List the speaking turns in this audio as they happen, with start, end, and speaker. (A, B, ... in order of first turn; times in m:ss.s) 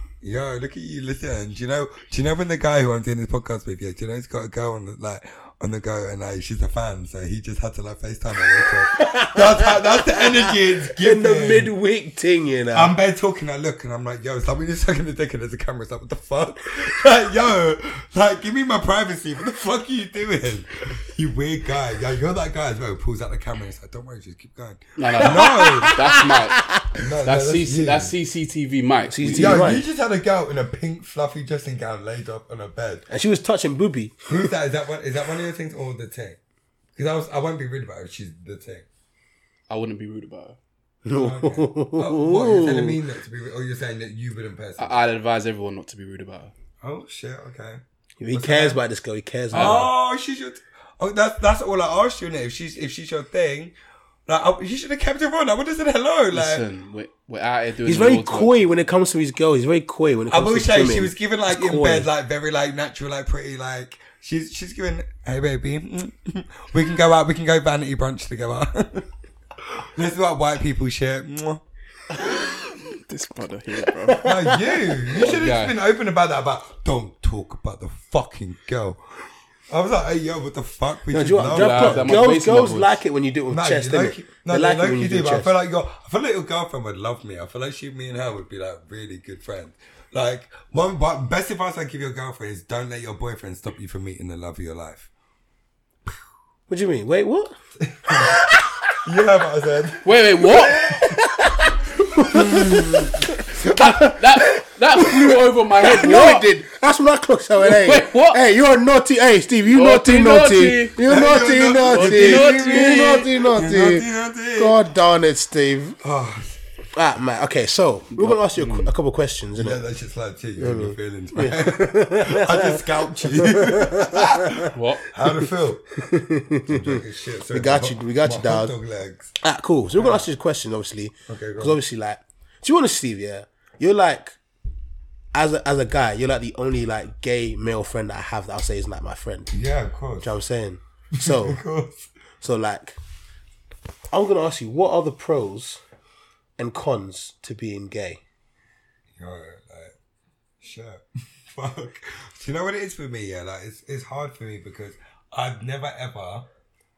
0:00.2-0:11.7 A
0:08.9-0:12.9 B
0:12.7-0:26.0 A
0:25.0-0:26.6 C
0:25.2-0:27.0 B
0:27.0-0:28.2 A
0:27.2-0:29.7 C
0:29.1-0:29.8 B
0:29.3-0:33.1 A
0:33.1-0:34.2 B
0:34.3-0:36.4 A
0:37.0-0:38.9 A
0:39.7-0:40.6 C
0:41.1-0:43.0 B
0:41.1-0:45.0 A
0:44.8-0:46.5 C
0:46.8-0:48.8 A
0:48.2-0:49.9 B
0:49.5-0:49.9 C
0:49.5-0:53.8 A
0:54.3-0:56.6 A
0:56.3-0:58.7 C
0:57.8-1:02.1 B
1:00.3-1:11.6 A
1:12.3-1:14.3 C
1:14.0-1:14.8 B
1:14.2-1:22.3 A
1:15.1-1:15.8 C
1:21.1-1:25.5 B
1:21.4-1:23.0 C
1:23.5-1:35.1 A
1:36.7-1:37.6 B
1:37.8-1:38.4 A
1:38.2-1:38.6 B
1:39.0-1:40.3 A
1:40.0-1:40.9 C
1:40.6-1:44.4 B
1:42.2-1:44.0 A
1:43.7-1:46.5 C
1:45.0-1:56.0 B
1:47.6-1:48.4 C
1:49.7-1:51.0 C
1:51.0-1:54.8 A
1:51.8-1:53.4 C
1:56.0-1:56.6 A
1:57.0-1:59.8 B
1:58.2-1:58.9 C
1:59.6-2:06.0 A
2:00.6-2:04.7 B
2:04.7-2:05.1 C
2:06.0-2:08.7 B
2:06.7-2:09.4 A
2:09.4-2:14.4 B
2:10.0-2:10.3 A
2:11.3-2:11.8 A
2:15.3-2:19.5 B
2:19.5-2:20.3 A
2:20.2-2:21.6 B
2:21.2-2:22.1 A
2:22.4-2:23.0 B
2:24.1-2:25.8 B
2:26.6-2:28.2 B
2:29.2-2:30.0 A
2:30.6-2:36.5 A